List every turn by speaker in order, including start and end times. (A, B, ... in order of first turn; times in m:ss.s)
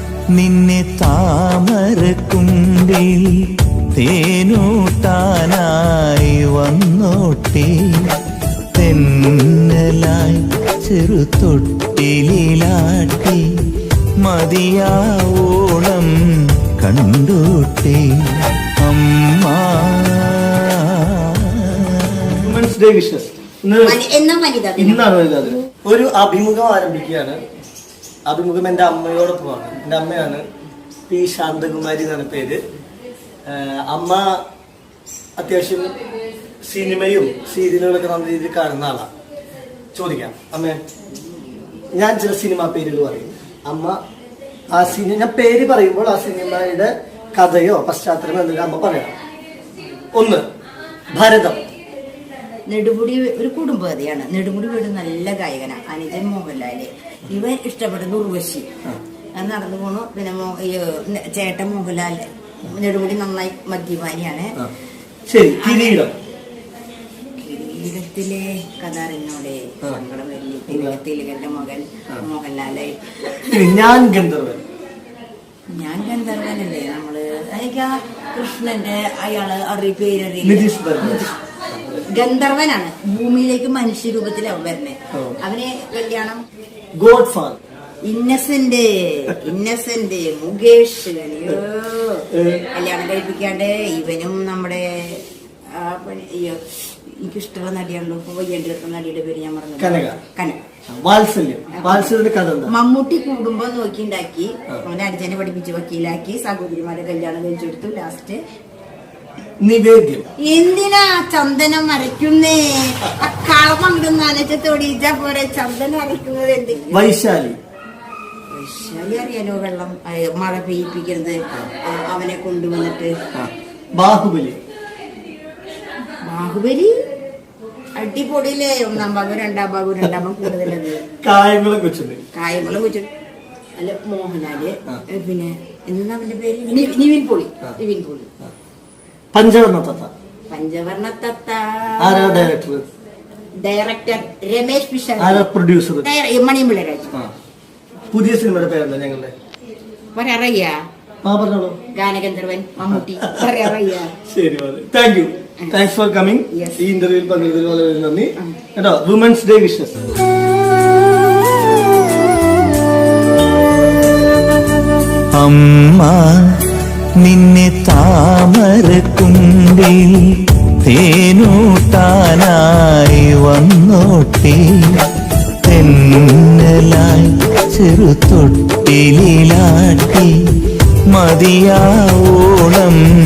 0:00.3-0:08.2 A
0:08.7-0:13.4 A
0:14.2-0:16.1 A
0:16.8-0:22.6 A
0:22.4-0:24.0 B
0:23.8-0:25.0 C
0:24.8-0:27.4 B
0:28.3-0:30.4 B
0:31.1-0:32.6 B
0:33.5-0:34.4 B
0:35.4-0:35.9 B
0:36.6-0:39.1 B
0:39.9-0:40.8 B
0:41.9-0:44.0 B
0:44.7-0:49.1 B
0:50.1-0:50.5 B
0:51.1-0:51.6 B
0:52.7-0:58.7 C
0:59.3-1:04.6 C
1:05.3-1:06.2 B
1:05.6-1:06.0 C
1:07.4-1:13.5 C
1:10.7-1:11.0 B
1:13.5-1:14.6 B
1:15.7-1:21.3 C
1:20.4-1:21.3 B
1:21.9-1:26.4 C
1:27.0-1:27.6 B
1:28.0-1:40.6 C
1:32.3-1:32.7 B
1:39.8-1:40.2 B
1:40.9-1:42.7 B
1:41.7-1:42.1 C
1:42.7-1:48.4 C
1:49.6-1:50.3 B
1:50.4-1:57.1 C
1:56.9-1:57.6 B
1:58.5-2:03.1 C
2:03.3-2:04.6 B
2:06.2-2:06.9 C
2:08.0-2:11.0 C
2:11.2-2:12.2 B
2:12.3-2:13.1 C
2:13.8-2:18.3 C
2:19.3-2:20.1 B
2:20.5-2:22.5 C
2:22.0-2:22.8 B
2:23.6-2:25.5 C
2:25.2-2:26.1 B
2:26.0-2:27.2 C
2:28.1-2:29.3 B
2:30.1-2:30.8 C
2:31.2-2:31.8 B
2:31.9-2:34.1 C
2:33.2-2:39.9 B
2:36.5-2:36.8 C
2:45.3-2:46.6 A
2:47.2-2:55.1 A
2:55.6-3:00.3 A
3:01.1-3:03.0 A